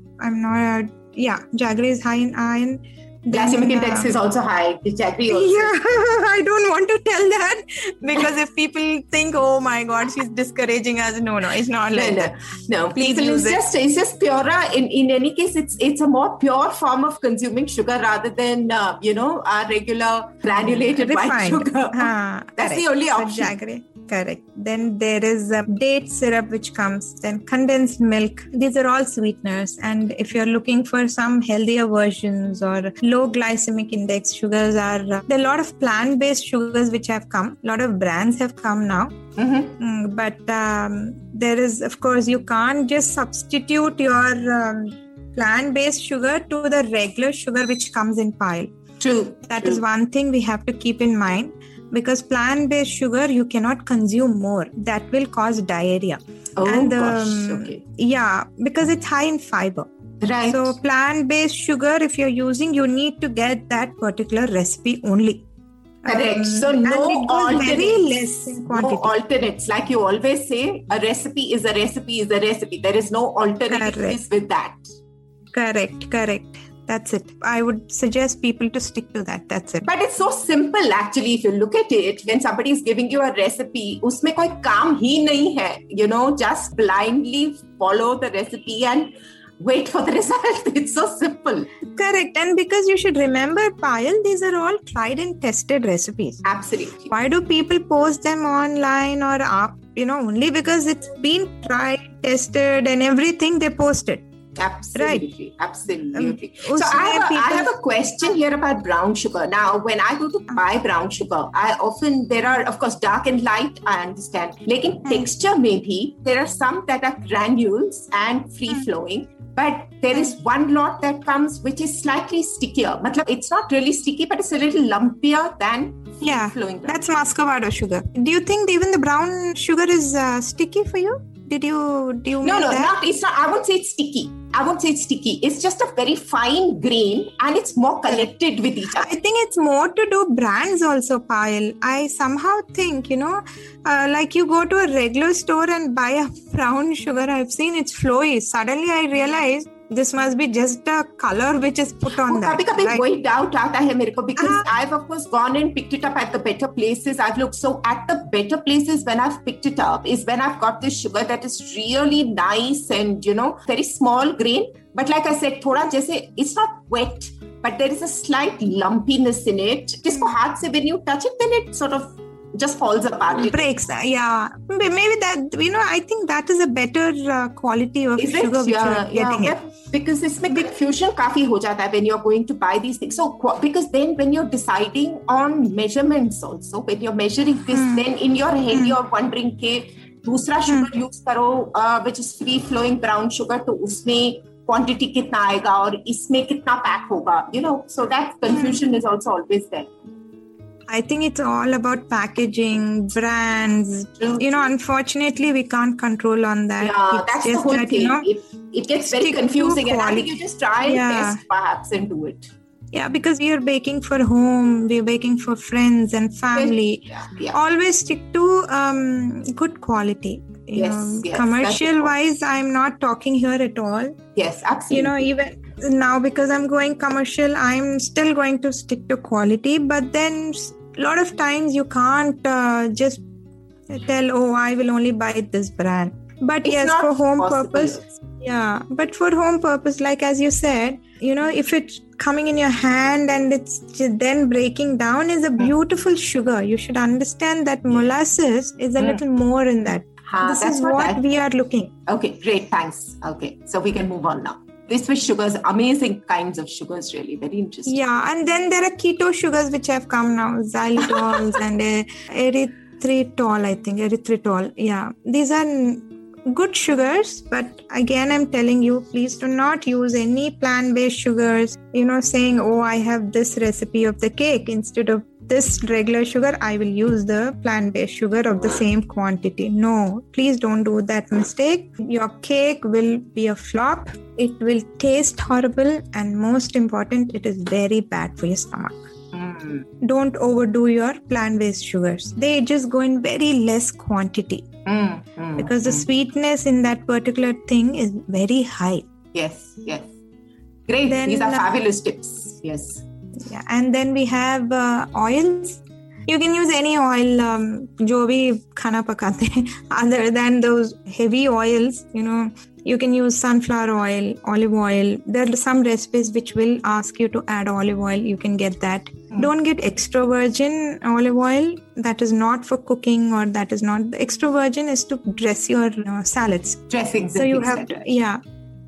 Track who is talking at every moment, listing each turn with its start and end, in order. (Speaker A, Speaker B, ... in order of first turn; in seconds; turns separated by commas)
Speaker A: 0.2-4.1, Speaker B: 3.3-5.7, Speaker A: 5.3-12.3, Speaker B: 11.9-23.5, Speaker A: 12.9-13.6, Speaker A: 20.7-39.2, Speaker B: 39.4-39.7, Speaker A: 39.8-48.7, Speaker B: 49.0-49.8, Speaker A: 49.5-59.9, Speaker B: 56.6-57.8, Speaker B: 60.2-60.8, Speaker A: 60.5-65.4, Speaker A: 66.0-69.1, Speaker B: 66.1-68.1, Speaker B: 68.7-75.0, Speaker A: 73.7-74.2, Speaker A: 75.5-79.9, Speaker B: 79.8-91.7, Speaker A: 91.9-96.4, Speaker B: 96.4-97.1, Speaker A: 97.1-104.2, Speaker B: 104.6-127.0, Speaker A: 105.0-105.3, Speaker A: 106.1-107.7, Speaker A: 126.2-132.9, Speaker B: 132.4-139.1, Speaker A: 139.0-153.0, Speaker B: 152.2-173.7, Speaker A: 154.4-154.7, Speaker A: 173.4-179.6, Speaker B: 178.2-199.9, Speaker A: 187.7-188.1, Speaker A: 200.9-208.3, Speaker B: 204.2-204.6, Speaker B: 206.8-212.5, Speaker A: 209.1-211.4, Speaker A: 212.9-224.2, Speaker B: 216.6-217.6, Speaker B: 220.8-222.1, Speaker B: 224.3-225.2, Speaker A: 224.9-233.2, Speaker A: 233.9-251.9, Speaker B: 236.6-238.1, Speaker B: 250.3-251.2, Speaker B: 252.1-258.0, Speaker A: 257.9-289.0, Speaker B: 289.3-289.9, Speaker A: 290.0-294.7, Speaker B: 294.9-296.1, Speaker A: 295.6-299.1, Speaker B: 299.3-300.1, Speaker B: 300.9-303.0, Speaker A: 301.1-301.7, Speaker A: 303.4-328.4, Speaker B: 326.9-328.1